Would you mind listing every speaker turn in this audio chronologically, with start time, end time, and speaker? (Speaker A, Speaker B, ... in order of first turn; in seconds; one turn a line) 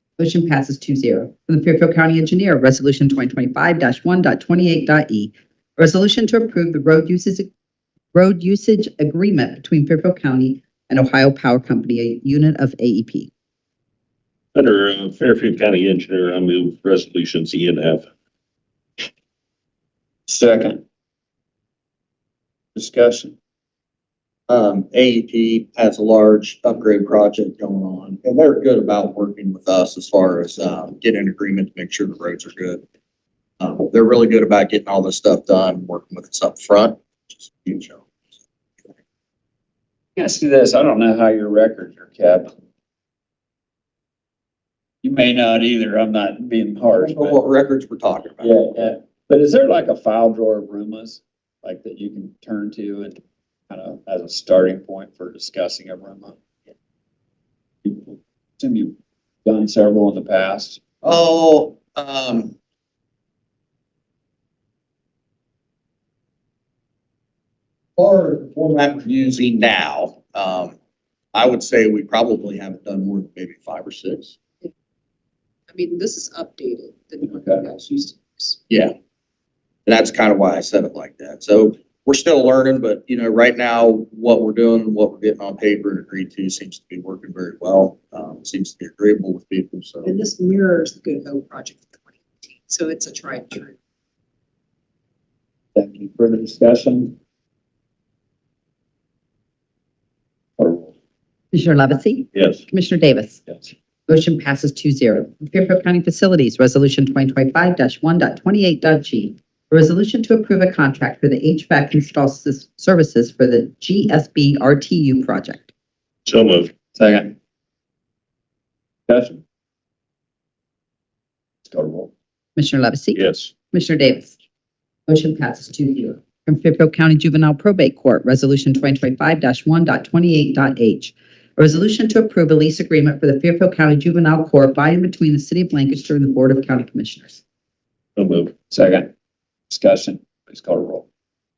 Speaker A: 0.2-7.5
Speaker A: 8.1-13.3
Speaker B: 14.5-18.1
Speaker C: 20.3-20.8
Speaker C: 22.7-23.3
Speaker D: 24.5-32.8
Speaker D: 33.6-38.1
Speaker C: 40.1-42.5
Speaker C: 45.0-47.4
Speaker D: 47.0-48.5
Speaker C: 48.4-53.2
Speaker C: 53.7-56.4
Speaker C: 57.8-60.8
Speaker D: 61.0-62.5
Speaker D: 68.0-70.8
Speaker D: 71.3-74.3
Speaker E: 75.7-78.6
Speaker C: 77.3-77.6
Speaker D: 78.7-78.9
Speaker D: 79.8-90.1
Speaker E: 90.0-93.8
Speaker C: 95.7-97.2
Speaker C: 100.6-100.9
Speaker A: 101.5-103.4
Speaker B: 102.3-102.6
Speaker A: 104.1-115.7
Speaker B: 116.2-116.7
Speaker C: 116.9-117.3
Speaker C: 119.1-119.4
Speaker C: 121.6-122.1
Speaker A: 122.5-123.2
Speaker B: 123.1-123.5
Speaker A: 123.7-124.3
Speaker A: 125.1-137.4
Speaker B: 138.2-138.5
Speaker C: 138.7-139.1
Speaker C: 139.7-141.0